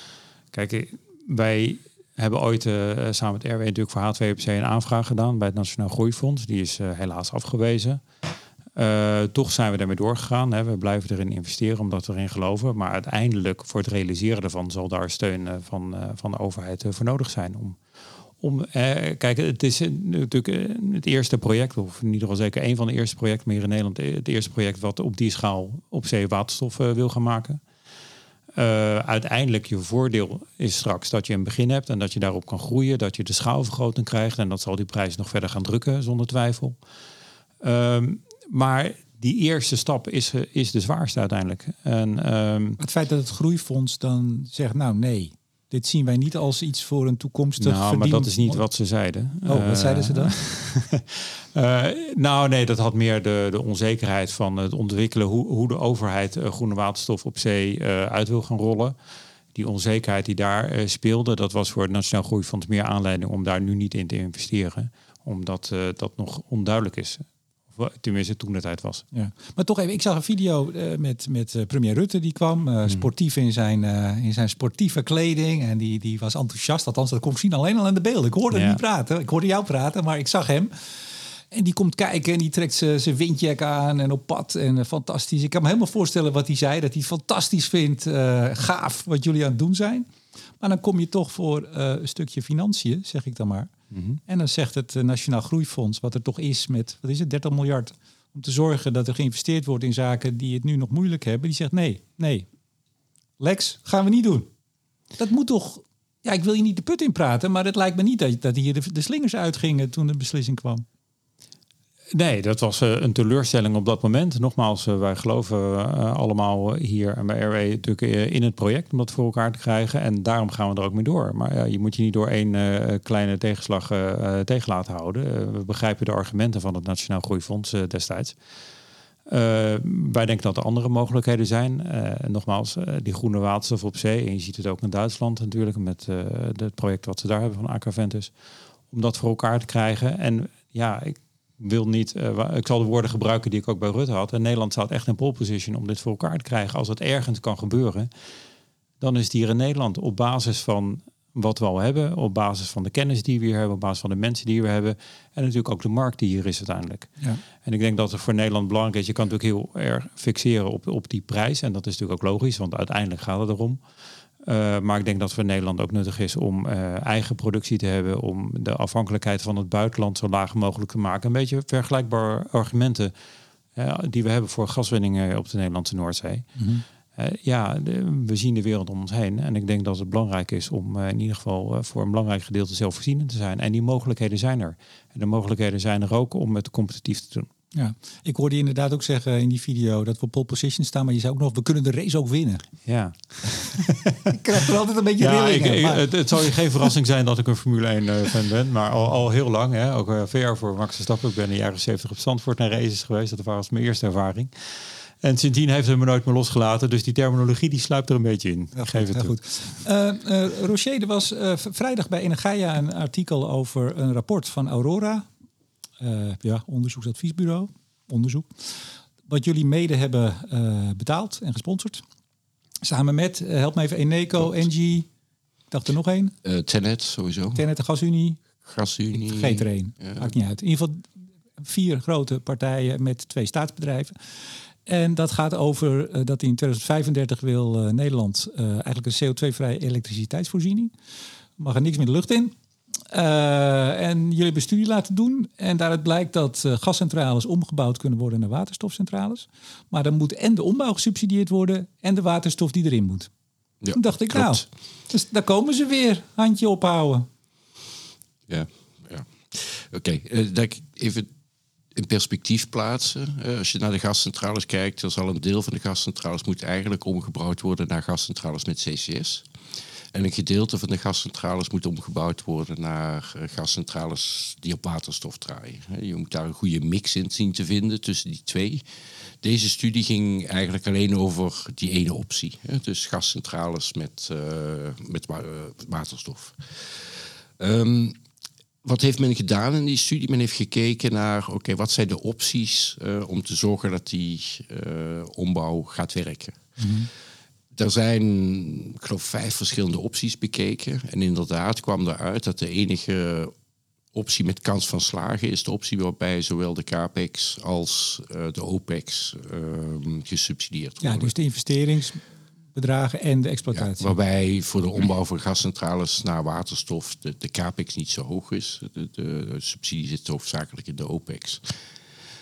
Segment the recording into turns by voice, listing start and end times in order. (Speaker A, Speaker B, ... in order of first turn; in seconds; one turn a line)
Speaker A: 0.5-8.0
Speaker A: 8.8-17.8
Speaker A: 18.4-27.6
Speaker A: 28.6-36.8
Speaker A: 37.6-42.8
Speaker B: 42.8-48.6
Speaker A: 47.6-59.0
Speaker B: 49.5-50.3
Speaker A: 59.5-69.0
Speaker B: 69.1-80.7
Speaker A: 78.5-78.8
Speaker B: 81.5-93.7
Speaker A: 93.9-94.2
Speaker B: 94.3-102.5
Speaker B: 103.4-104.5
Speaker B: 105.2-110.8
Speaker A: 112.1-128.4
Speaker A: 129.3-138.3
Speaker A: 138.9-148.1
Speaker A: 149.0-163.8
Speaker A: 164.4-173.1
Speaker A: 173.8-176.6
Speaker B: 176.6-176.8
Speaker A: 177.2-187.5
Speaker B: 187.7-192.7
Speaker A: 192.8-194.3
Speaker B: 194.3-196.6
Speaker A: 195.2-209.8
Speaker B: 208.7-215.3
Speaker B: 216.0-222.0
Speaker B: 222.8-225.1
Speaker B: 225.7-226.3
Speaker C: 226.4-227.6
Speaker B: 227.6-228.4
Speaker C: 228.6-230.3
Speaker B: 229.2-240.9
Speaker B: 241.6-242.5
Speaker B: 243.1-253.3
Speaker C: 253.8-254.6
Speaker B: 253.9-257.3
Speaker C: 258.5-261.3
Speaker C: 261.9-269.4
Speaker C: 270.1-278.8
Speaker C: 279.4-288.2
Speaker C: 288.8-296.6
Speaker B: 296.8-297.1
Speaker C: 297.7-303.5
Speaker C: 304.1-311.3
Speaker B: 311.0-312.2
Speaker B: 312.7-314.1
Speaker C: 313.7-321.8